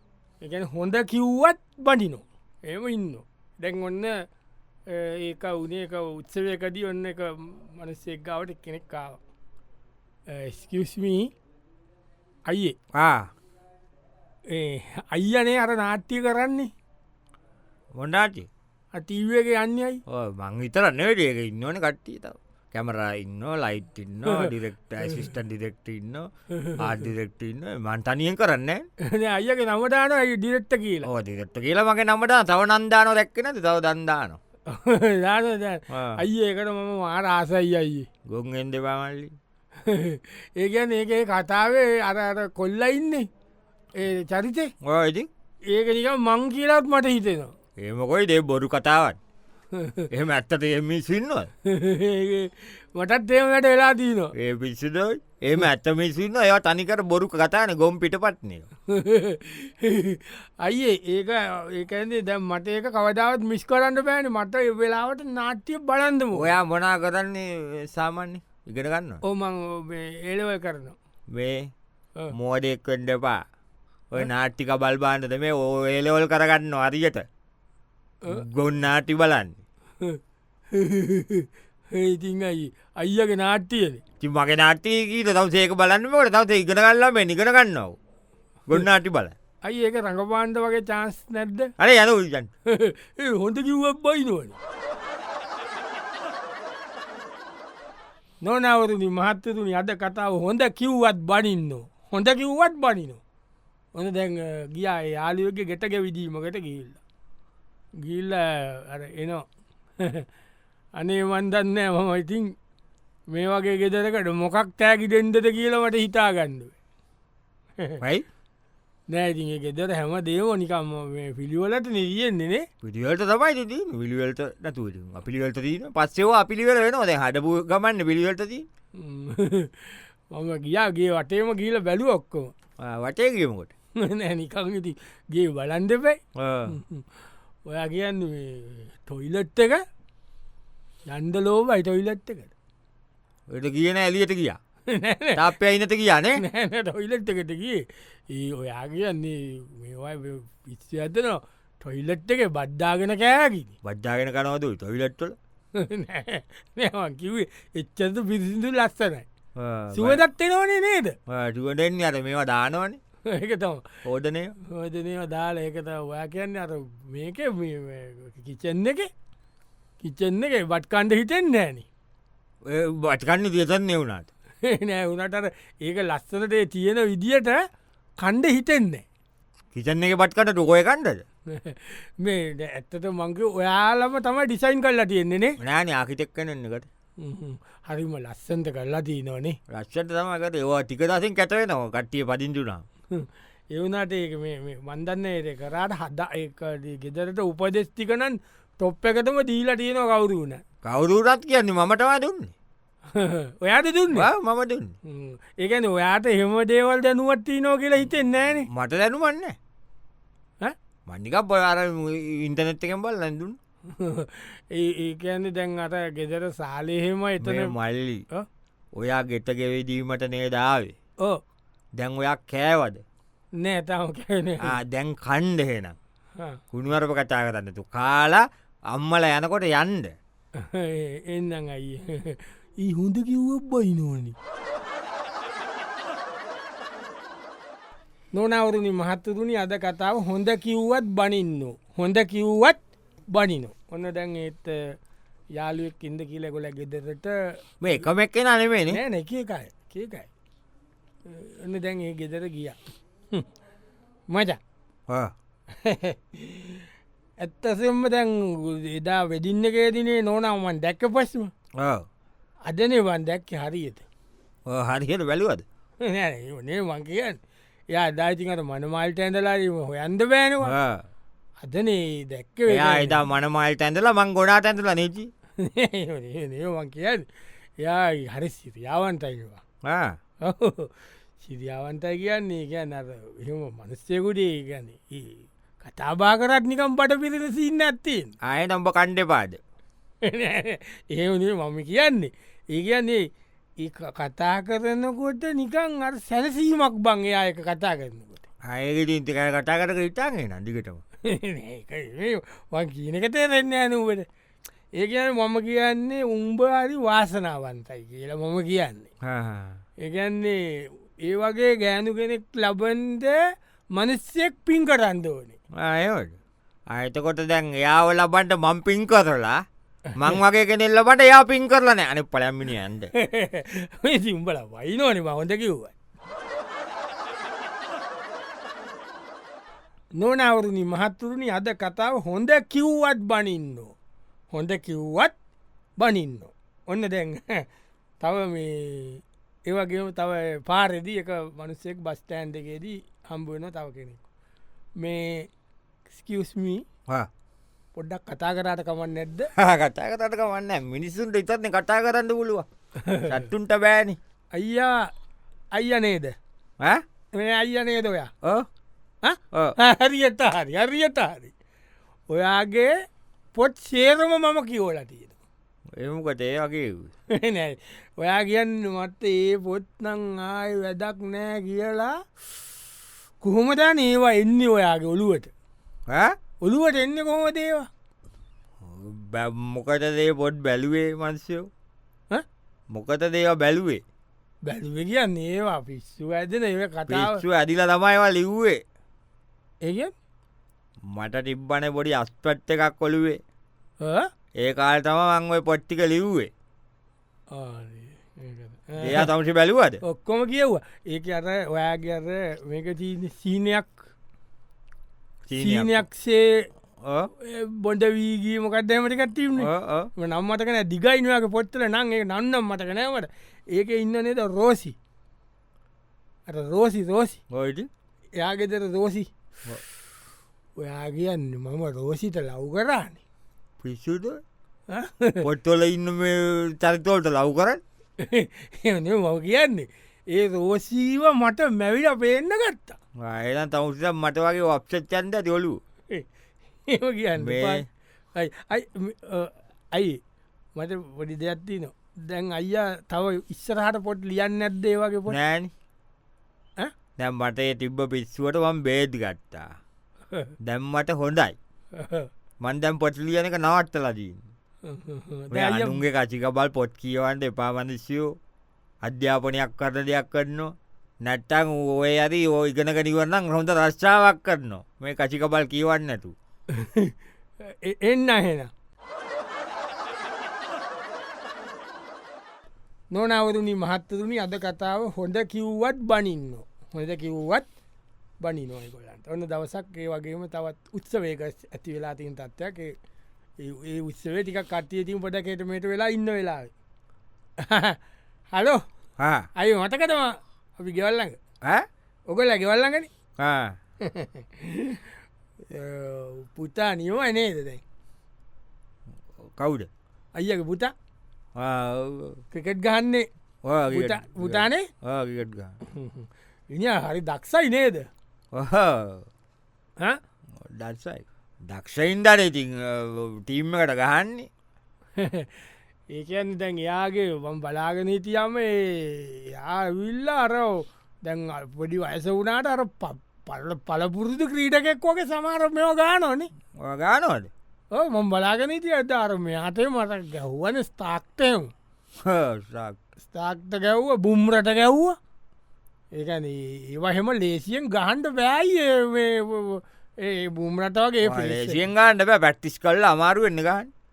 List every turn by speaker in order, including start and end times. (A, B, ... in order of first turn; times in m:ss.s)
0:00.4-0:04.2 A
0:04.9-0:09.2 A
0:10.3-0:11.3 A
0:12.5-0:12.8 A
0:12.9-0:13.3 B
0:14.5-0:16.7 A
0:18.0-0:18.5 B
0:18.9-0:20.0 A
0:20.1-0:28.8 B
0:24.2-0:24.5 A
0:26.5-0:27.0 A
0:29.0-0:31.1 A
0:31.0-0:34.4 B
0:34.7-0:38.1 A
0:35.9-0:36.2 B
0:38.3-0:39.3 B
0:39.8-0:43.3 A
0:44.0-0:44.7 A
0:44.8-0:45.3 B
0:45.7-0:47.5 A
0:47.8-0:49.2 B
0:49.7-0:50.1 A
0:50.1-0:51.5 B
0:51.6-0:54.3 A
0:54.3-0:58.7 B
0:58.9-1:06.5 A
1:06.3-1:09.2 B
1:09.2-1:11.0 A
1:11.3-1:11.7 B
1:12.3-1:13.4 B
1:14.1-1:17.2 B
1:18.3-1:19.6 B
1:20.7-1:24.0 A
1:24.2-1:28.0 B
1:28.7-1:29.3 B
1:29.6-1:31.7 A
1:31.8-1:32.5 B
1:32.6-1:34.6 A
1:38.4-1:43.2 A
1:43.9-1:47.0 A
1:48.0-1:49.4 A
1:50.0-1:50.3 A
1:51.0-1:52.6 A
1:53.3-1:56.7 A
1:58.0-1:58.3 B
1:59.1-2:02.6 A
2:02.8-2:08.7 B
2:08.9-2:12.5 A
2:12.8-2:13.7 B
2:14.0-2:17.1 A
2:16.4-2:16.8 B
2:17.6-2:19.8 A
2:21.1-2:22.5 A
2:23.5-2:24.6 B
2:24.9-2:25.4 A
2:25.4-2:26.4 B
2:26.4-2:33.7 A
2:33.8-2:35.4 B
2:35.7-2:39.2 A
2:39.6-2:40.2 B
2:39.9-2:41.2 A
2:41.3-2:43.0 B
2:43.2-2:43.9 A
2:44.0-2:44.5 B
2:44.6-2:49.1 A
2:50.0-2:51.9 A
2:52.6-2:54.3 B
2:54.6-2:57.6 A
2:58.2-2:59.0 A
2:59.7-3:01.2 B
3:01.5-3:05.6 A
3:05.6-3:06.9 B
3:07.2-3:09.6 A
3:09.7-3:12.8 B
3:13.1-3:20.6 A
3:20.8-3:22.5 B
3:23.1-3:24.3 A
3:24.1-3:25.0 B
3:25.0-3:28.7 A
3:28.7-3:29.6 B
3:31.1-3:33.6 B
3:33.9-3:37.7 A
3:37.4-3:38.2 B
3:38.9-3:40.9 B
3:42.0-3:43.0 B
3:43.6-3:44.8 A
3:44.6-3:46.0 B
3:46.7-3:50.2 B
3:50.6-3:54.4 A
3:58.3-4:05.0 A
4:05.6-4:07.6 A
4:07.8-4:09.0 B
4:08.9-4:10.3 A
4:11.2-4:12.8 A
4:14.3-4:14.6 A
4:15.7-4:16.9 A
4:17.4-4:21.5 A
4:21.8-4:22.0 B
4:22.7-4:24.0 A
4:24.7-4:25.6 B
4:26.0-4:27.4 A
4:27.9-4:30.7 A
4:30.6-4:31.0 B
4:31.6-4:33.2 A
4:32.7-4:35.3 B
4:35.6-4:37.3 A
4:37.8-4:39.6 A
4:39.8-4:40.2 B
4:40.4-4:48.3 A
4:48.4-4:49.6 B
4:50.2-4:53.3 A
4:53.8-4:58.4 A
4:58.7-5:01.0 B
5:01.2-5:04.3 A
5:05.0-5:09.1 A
5:09.2-5:09.8 B
5:10.0-5:13.4 A
5:14.0-5:15.6 A
5:15.8-5:16.4 B
5:16.9-5:19.6 B
5:20.2-5:23.1 B
5:23.2-5:25.9 A
5:30.2-5:33.9 A
5:34.5-5:35.3 A
5:36.0-5:37.6 A
5:38.2-5:44.2 A
5:45.0-5:45.5 A
5:46.1-5:46.8 A
5:47.9-5:49.5 A
5:49.6-5:52.6 B
5:53.0-5:53.4 A
5:53.2-5:54.2 B
5:54.5-5:55.1 A
5:55.7-5:56.3 A
5:57.3-5:58.3 A
5:58.4-5:58.7 B
5:59.2-6:01.5 A
6:02.3-6:02.9 A
6:03.5-6:05.4 A
6:06.0-6:07.1 B
6:07.3-6:12.1 A
6:13.4-6:15.5 A
6:16.1-6:16.4 B
6:16.6-6:17.9 A
6:18.8-6:21.7 B
6:22.9-6:24.0 B
6:24.6-6:27.4 A
6:27.1-6:28.8 B
6:29.8-6:30.1 A
6:31.1-6:33.4 B
6:34.0-6:34.3 A
6:34.6-6:36.5 B
6:37.5-6:39.3 A
6:39.0-6:40.0 B
6:40.0-6:44.1 A
6:45.5-6:46.0 B
6:45.5-6:46.7 A
6:47.0-6:47.3 B
6:47.3-6:55.0 A
6:49.6-6:50.1 B
6:56.5-6:57.4 A
6:57.5-6:57.9 B
6:58.4-6:59.3 A
7:00.8-7:03.2 A
7:03.8-7:04.4 B
7:04.9-7:05.4 A
7:05.4-7:07.8 B
7:08.2-7:13.0 A
7:13.2-7:15.8 B
7:16.9-7:17.8 A
7:17.4-7:17.8 B
7:18.3-7:20.2 A
7:20.8-7:25.4 A
7:25.3-7:25.7 B
7:27.2-7:29.8 B
7:30.6-7:31.6 B
7:31.9-7:32.3 A
7:32.6-7:34.4 B
7:34.8-7:36.0 A
7:35.5-7:38.4 B
7:39.0-7:46.3 B
7:46.7-7:48.7 A
7:53.1-7:57.7 A
7:58.4-8:02.9 A
8:03.6-8:06.7 A
8:07.6-8:08.0 A
8:08.5-8:08.8 A
8:09.2-8:09.5 B
8:09.6-8:11.4 A
8:12.3-8:13.1 A
8:13.4-8:13.8 B
8:14.0-8:15.1 A
8:15.7-8:17.8 A
8:19.6-8:19.9 B
8:20.4-8:20.9 A
8:21.6-8:22.4 B
8:22.5-8:23.3 A
8:23.6-8:25.8 B
8:23.9-8:24.9 A
8:25.8-8:28.1 A
8:28.5-8:29.2 B
8:30.6-8:34.5 B
8:35.2-8:35.5 A
8:36.1-8:46.5 A
8:46.8-8:47.5 B
8:47.9-8:51.7 A
8:52.2-8:53.0 B
8:53.2-8:55.2 A
8:56.1-9:01.8 A
9:01.2-9:03.9 B